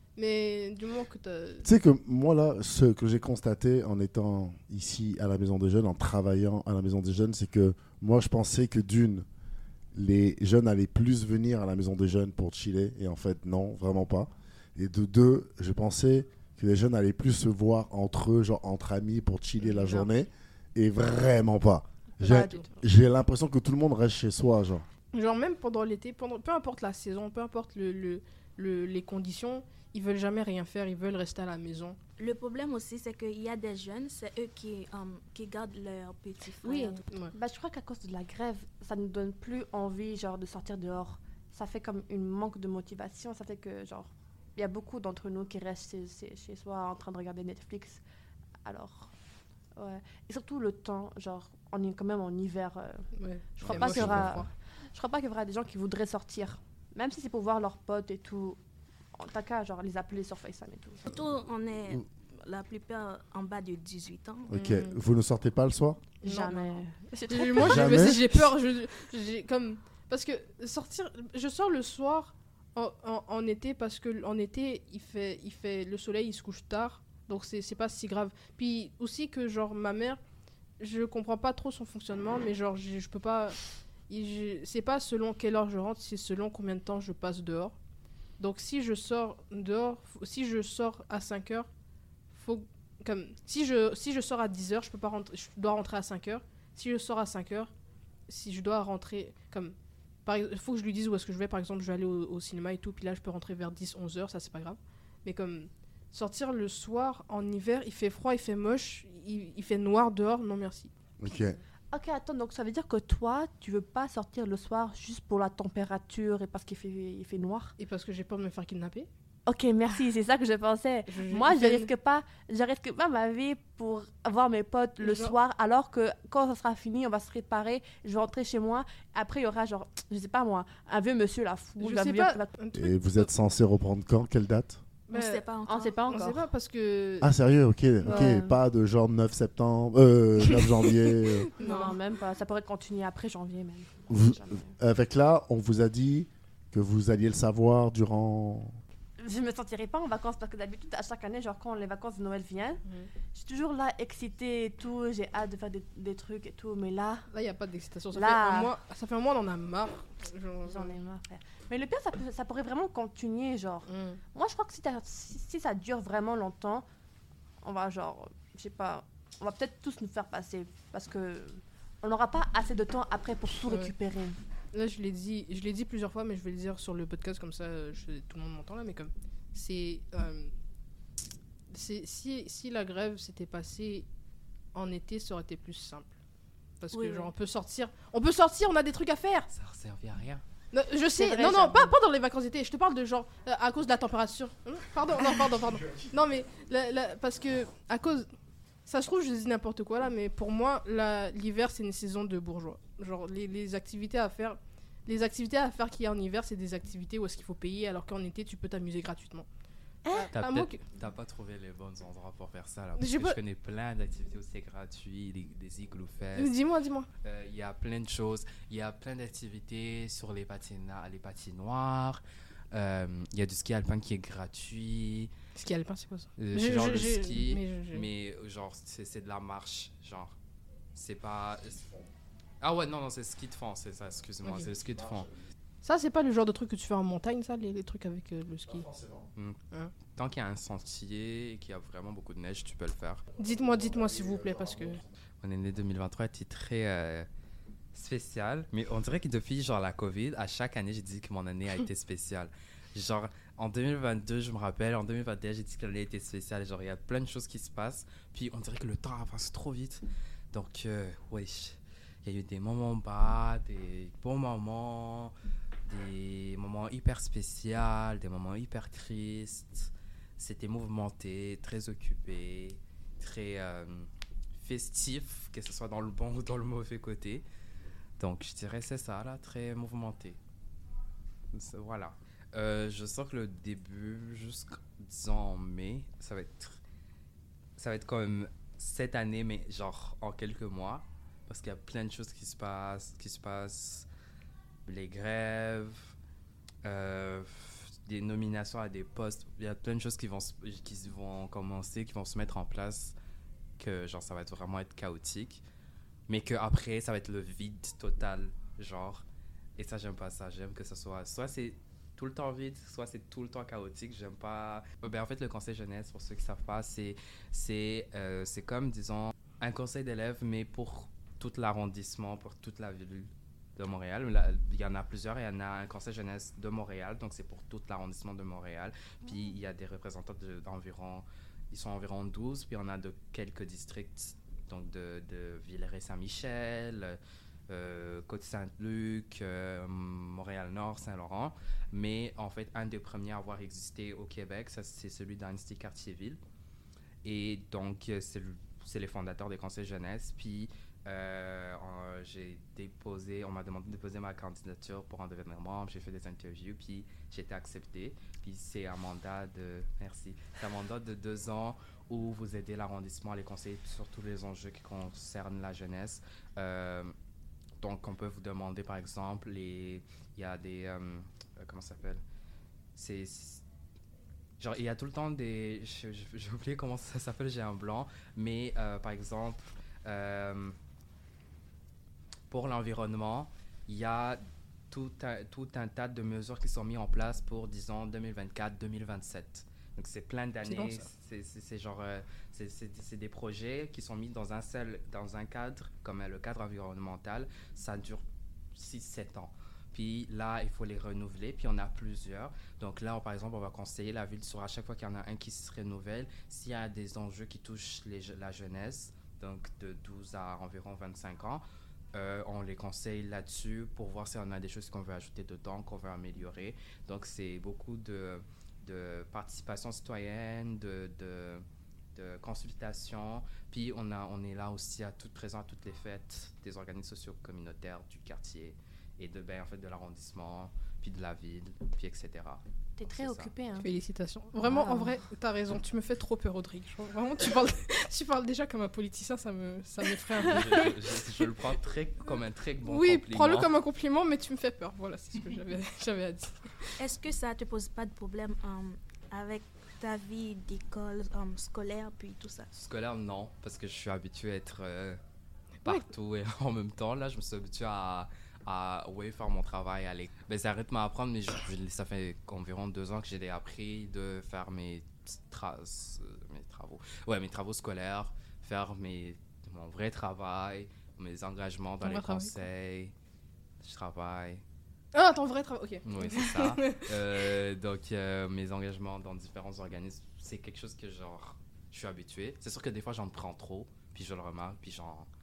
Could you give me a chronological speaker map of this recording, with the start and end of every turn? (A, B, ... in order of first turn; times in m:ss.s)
0:00.2-0:01.7 A
0:01.6-0:09.2 B
0:09.9-0:24.8 B
0:19.6-0:20.1 A
0:22.2-0:22.7 A
0:22.2-0:22.6 C
0:25.1-0:32.0 A
0:32.2-0:37.0 D
0:36.6-0:48.0 C
0:48.6-0:49.1 C
0:49.8-0:58.6 C
0:53.2-0:54.4 A
0:53.6-0:54.4 B
0:59.2-1:01.1 C
1:01.1-1:04.5 D
1:04.5-1:06.1 B
1:04.5-1:05.0 A
1:06.2-1:08.2 C
1:06.2-1:20.2 A
1:07.6-1:08.2 B
1:20.8-1:27.7 A
1:28.4-1:31.7 A
1:32.3-1:37.7 A
1:38.3-1:51.3 A
1:51.2-1:51.6 B
1:51.9-1:57.7 C
1:57.8-1:59.1 A
1:59.4-2:12.5 C
2:01.1-2:01.9 A
2:05.0-2:05.3 A
2:11.8-2:13.3 A
2:12.7-2:14.8 B
2:15.1-2:17.3 A
2:15.1-2:15.9 D
2:15.6-2:16.5 C
2:17.2-2:21.5 B
2:18.0-2:18.4 A
2:18.0-2:18.6 C
2:20.5-2:22.0 A
2:21.6-2:24.7 C
2:24.1-2:28.8 B
2:29.2-2:37.3 C
2:37.3-2:40.9 A
2:38.1-2:38.7 C
2:40.6-2:46.8 C
2:43.9-2:44.2 A
2:47.6-2:54.4 C
2:53.7-2:53.9 A
2:54.7-3:00.5 A
3:01.7-3:04.0 A
3:04.7-3:06.1 A
3:06.8-3:09.5 A
3:06.9-3:07.3 D
3:09.5-3:10.4 E
3:10.7-3:18.3 A
3:11.2-3:11.9 C
3:18.8-3:29.4 A
3:30.0-3:30.3 C
3:30.1-3:30.8 A
3:30.3-3:36.6 E
3:33.0-3:33.4 A
3:36.3-3:37.1 A
3:37.2-3:42.2 E
3:42.7-3:45.3 E
3:45.6-3:48.1 A
3:46.4-3:50.3 E
3:50.9-3:51.8 E
3:51.7-3:52.1 B
3:52.6-3:55.3 E
3:54.8-3:55.3 B
3:55.8-3:58.9 A
3:58.7-3:59.3 B
4:00.1-4:03.2 E
4:03.4-4:05.0 A
4:03.4-4:05.1 B
4:05.4-4:07.3 E
4:07.9-4:25.3 E
4:25.8-4:37.4 E
4:38.2-4:40.4 E
4:41.5-4:46.8 E
4:47.8-4:54.1 E
4:54.8-4:56.1 E
4:56.8-5:03.1 E
5:03.8-5:05.6 E
5:06.3-5:09.2 E
5:09.8-5:37.2 E
5:37.7-5:46.4 E
5:47.2-6:07.1 E
6:07.8-6:12.2 E
6:12.9-6:13.6 E
6:14.6-6:20.7 E
6:22.5-6:51.6 E
6:30.6-6:31.1 A
6:52.1-7:01.6 E
7:02.1-7:13.5 E
7:13.0-7:13.9 C
7:13.8-7:21.5 A
7:14.6-7:15.1 C
7:20.4-7:23.7 E
7:22.8-7:27.0 A
7:27.0-7:32.6 D
7:32.7-7:35.2 E
7:35.8-7:53.1 E
7:52.0-7:52.6 A
7:53.8-7:54.6 E
7:55.1-7:57.1 A
7:56.0-8:05.3 E